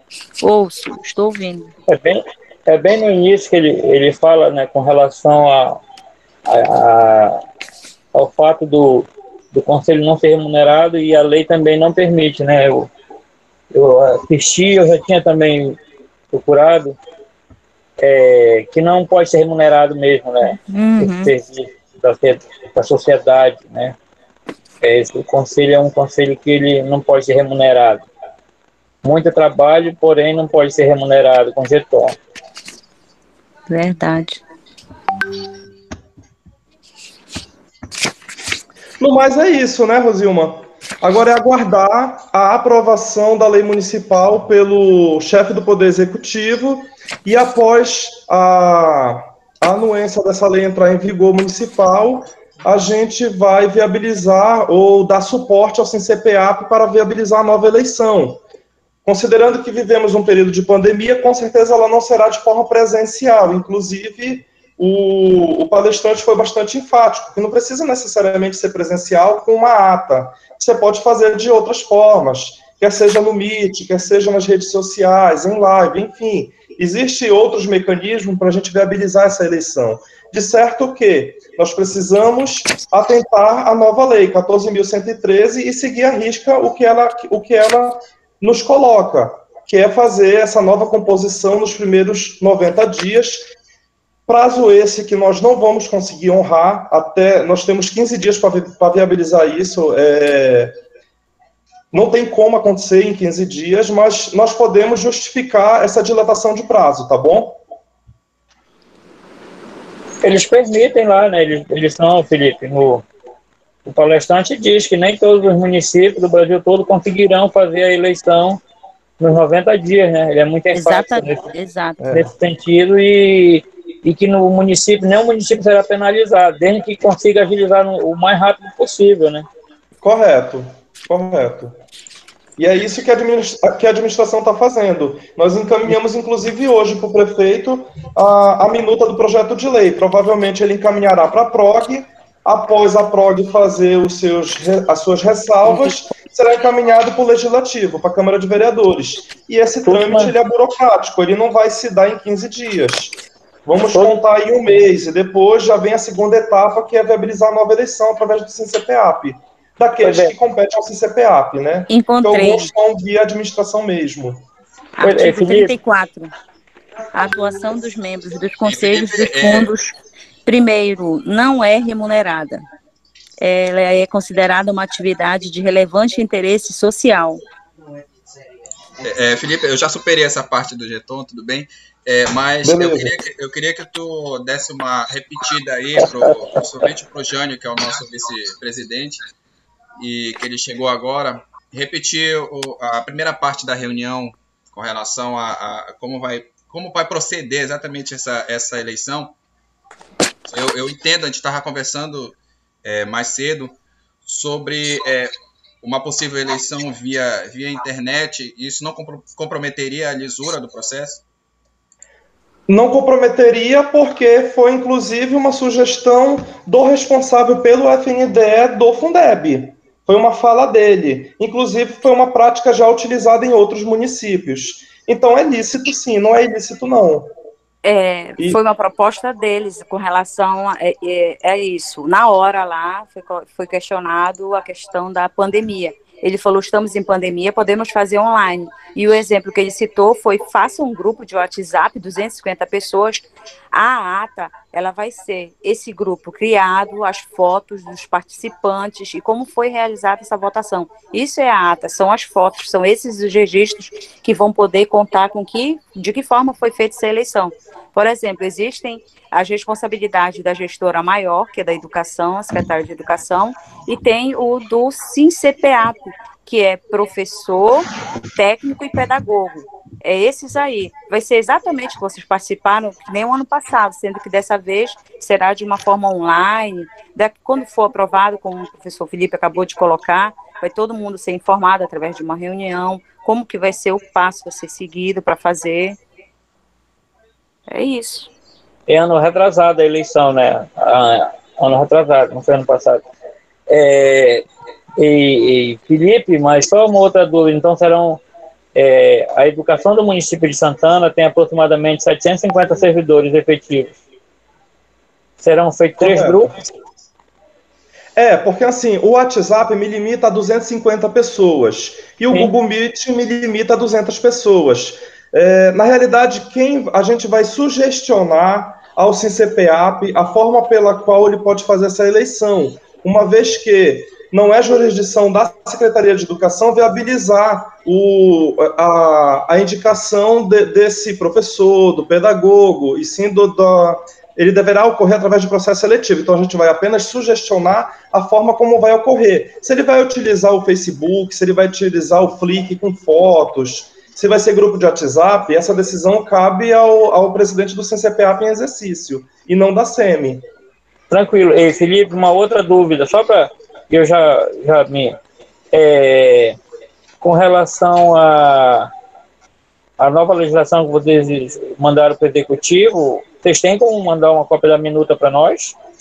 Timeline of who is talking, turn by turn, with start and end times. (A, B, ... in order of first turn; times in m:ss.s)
0:00.4-0:01.7 A
0:01.9-0:05.8 B
0:06.5-0:07.4 B
0:08.1-0:12.9 B
0:13.7-0:15.8 B
0:16.3-0:17.0 B
0:18.0-0:24.0 B
0:20.7-0:21.3 A
0:24.8-0:28.1 B
0:29.0-0:32.2 B
0:33.7-0:34.4 A
0:39.0-0:58.4 C
0:59.1-1:33.4 C
1:34.3-1:40.7 C
1:41.9-1:47.6 C
1:50.2-1:53.1 B
1:53.8-1:58.6 B
1:59.2-2:01.4 B
2:00.7-2:02.0 A
2:02.0-2:02.3 C
2:02.1-2:09.5 B
2:10.0-2:11.8 C
2:12.6-2:44.4 C
2:29.9-2:30.4 B
2:33.9-2:34.2 B
2:40.0-2:40.3 B
2:41.9-2:42.7 A
2:45.0-2:46.3 A
2:45.0-2:45.8 B
2:47.1-2:52.6 A
2:48.6-2:49.7 D
2:53.4-2:57.4 A
2:59.0-3:09.2 D
3:02.6-3:03.2 C
3:06.0-3:06.6 B
3:10.0-3:19.4 D
3:20.5-3:31.2 D
3:32.7-3:47.3 C
3:47.8-4:46.0 A
4:47.7-4:48.3 A
4:48.9-4:53.1 B
4:53.7-4:54.4 B
4:55.0-4:58.2 B
4:58.7-5:04.0 B
5:05.4-5:06.6 B
5:06.0-5:06.5 C
5:08.2-5:50.4 C
5:51.1-5:55.2 B
5:55.7-5:56.6 B
5:57.2-5:58.9 B
6:00.0-6:05.8 B